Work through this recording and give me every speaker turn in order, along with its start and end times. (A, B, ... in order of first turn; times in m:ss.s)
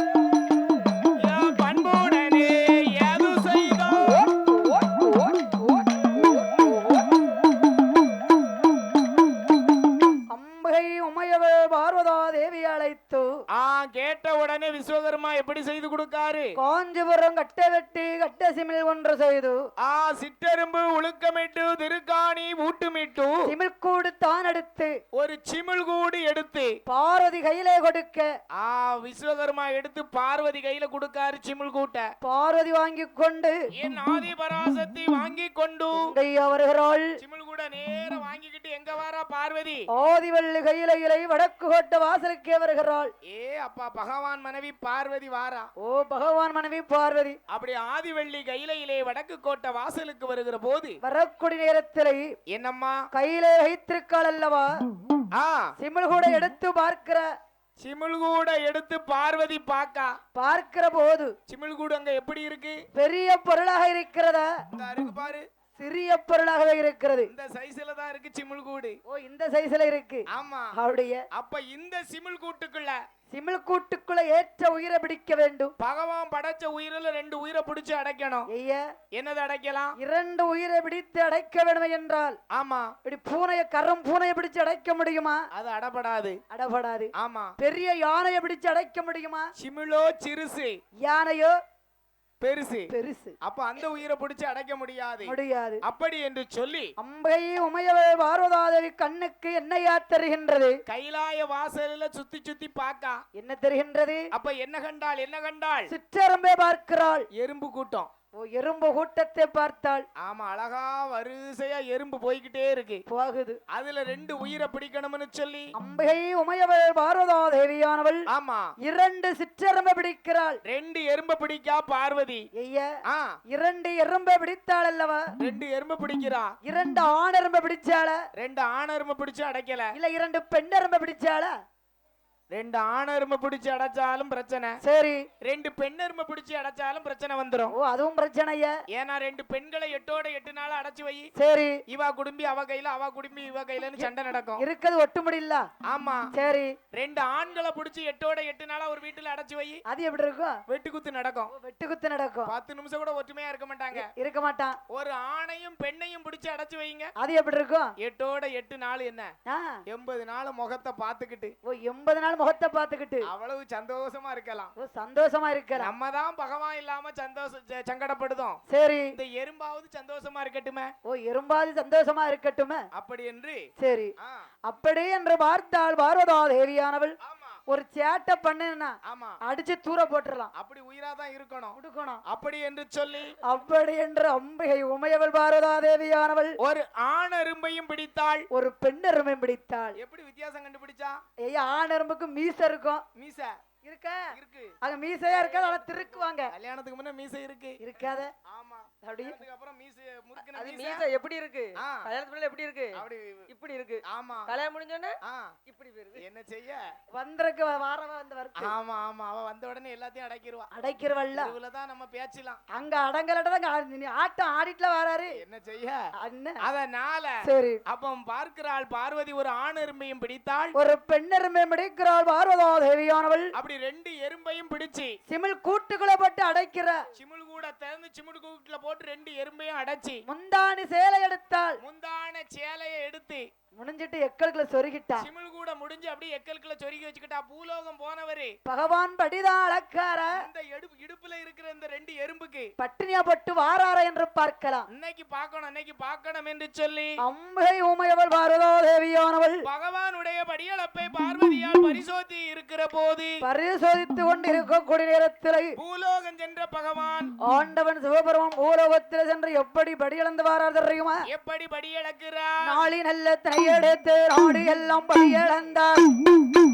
0:01.2-0:04.3 A
0:04.0-0:07.1 B
0:10.3-0:13.3 C
0:13.5-0:16.5 A
0:16.6-0:19.6 C
0:19.8-0:23.4 A
0:23.5-0:24.9 C
0:25.1-0:26.7 A
0:26.9-0:28.3 C
0:28.6-0:32.1 A
0:32.2-0:33.6 C
0:33.8-0:36.1 A
0:35.9-0:37.1 C
0:37.2-0:39.8 A
0:40.0-0:43.1 C
0:43.3-0:45.7 A
0:45.8-0:47.4 C
0:47.5-0:51.0 A
0:51.0-0:52.3 C
0:52.5-0:53.0 A
0:53.1-0:54.7 C
0:55.3-0:55.7 A
0:55.8-0:57.2 C
0:57.8-1:00.1 A
1:00.3-1:01.3 C
1:01.5-1:02.8 A
1:03.0-1:04.5 C
1:04.7-1:05.4 A
1:05.8-1:07.3 C
1:07.3-1:09.0 A
1:09.1-1:11.2 C
1:10.3-1:10.7 A
1:11.3-1:13.0 A
1:13.3-1:15.7 C
1:15.8-1:18.5 A
1:18.5-1:18.8 C
1:19.2-1:19.9 A
1:20.0-1:22.4 C
1:22.5-1:22.9 A
1:23.0-1:25.4 C
1:25.5-1:26.4 A
1:26.5-1:29.5 C
1:27.2-1:27.5 A
1:29.6-1:30.8 A
1:31.0-1:31.5 C
1:32.4-1:32.9 A
1:32.9-1:33.4 C
1:33.4-1:35.3 A
1:35.2-1:35.8 C
1:35.8-1:36.9 A
1:37.0-1:40.8 C
1:40.9-1:43.2 A
1:43.4-1:44.2 C
1:44.3-1:45.9 A
1:45.9-1:47.3 C
1:47.4-1:48.1 A
1:48.4-1:50.0 C
1:50.2-1:53.0 A
1:53.1-1:53.6 C
1:53.7-1:55.7 A
1:55.8-1:58.2 C
1:58.3-1:58.7 A
1:58.8-2:00.6 C
2:00.7-2:02.4 A
2:02.6-2:02.9 C
2:03.1-2:03.4 A
2:03.5-2:05.3 C
2:05.4-2:06.5 A
2:06.6-2:08.2 C
2:08.4-2:09.9 A
2:09.9-2:11.5 C
2:12.5-2:14.7 A
2:14.8-2:15.2 C
2:15.4-2:17.7 A
2:17.7-2:18.7 C
2:18.9-2:21.3 A
2:21.4-2:21.8 C
2:21.9-2:24.6 A
2:24.0-2:25.6 C
2:25.9-2:26.3 A
2:26.3-2:26.7 C
2:26.9-2:29.8 A
2:29.9-2:30.6 C
2:30.7-2:31.5 A
2:31.5-2:32.5 C
2:32.5-2:34.1 A
2:33.9-2:34.8 C
2:34.9-2:37.1 A
2:37.2-2:37.9 C
2:38.0-2:39.3 A
2:39.5-2:39.8 C
2:39.9-2:41.5 A
2:41.7-2:43.2 C
2:43.3-2:44.7 A
2:44.8-2:45.9 C
2:45.8-2:48.6 A
2:48.7-2:49.1 C
2:49.2-2:50.9 A
2:51.1-2:52.8 C
2:53.0-2:53.6 A
2:53.8-2:54.1 C
2:54.7-2:57.2 C
2:57.2-2:57.6 A
2:57.7-3:00.5 C
2:59.1-2:59.4 A
3:00.6-3:01.8 A
3:01.8-3:02.2 C
3:02.3-3:03.4 A
3:03.4-3:06.5 C
3:06.6-3:08.4 A
3:08.5-3:10.0 C
3:10.0-3:11.2 A
3:11.4-3:13.0 C
3:13.2-3:13.6 A
3:13.8-3:14.3 C
3:14.3-3:14.8 A
3:14.8-3:16.5 C
3:16.5-3:17.8 A
3:17.8-3:18.3 C
3:18.5-3:21.1 A
3:19.0-3:19.4 C
3:20.5-3:26.2 B
3:21.8-3:22.1 A
3:22.9-3:23.5 A
3:24.1-3:24.6 A
3:25.2-3:25.6 A
3:26.2-3:26.8 A
3:27.2-3:28.7 C
3:28.6-3:30.7 A
3:30.7-3:31.5 C
3:31.3-3:32.6 A
3:32.7-3:35.4 C
3:35.4-3:36.0 A
3:36.2-3:36.6 C
3:36.6-3:37.4 A
3:37.4-3:37.8 C
3:37.9-3:40.7 A
3:40.8-3:43.5 C
3:43.6-3:45.1 A
3:45.3-3:47.0 C
3:47.1-3:50.2 A
3:50.3-3:51.8 C
3:51.8-3:53.5 A
3:53.8-3:55.3 C
3:55.2-3:58.5 A
3:58.7-4:00.4 C
4:00.3-4:02.7 A
4:02.8-4:04.9 C
4:04.9-4:07.1 A
4:07.2-4:09.6 C
4:09.7-4:13.4 A
4:13.4-4:15.8 C
4:15.8-4:17.4 A
4:17.5-4:21.2 C
4:21.3-4:22.8 A
4:22.7-4:26.1 C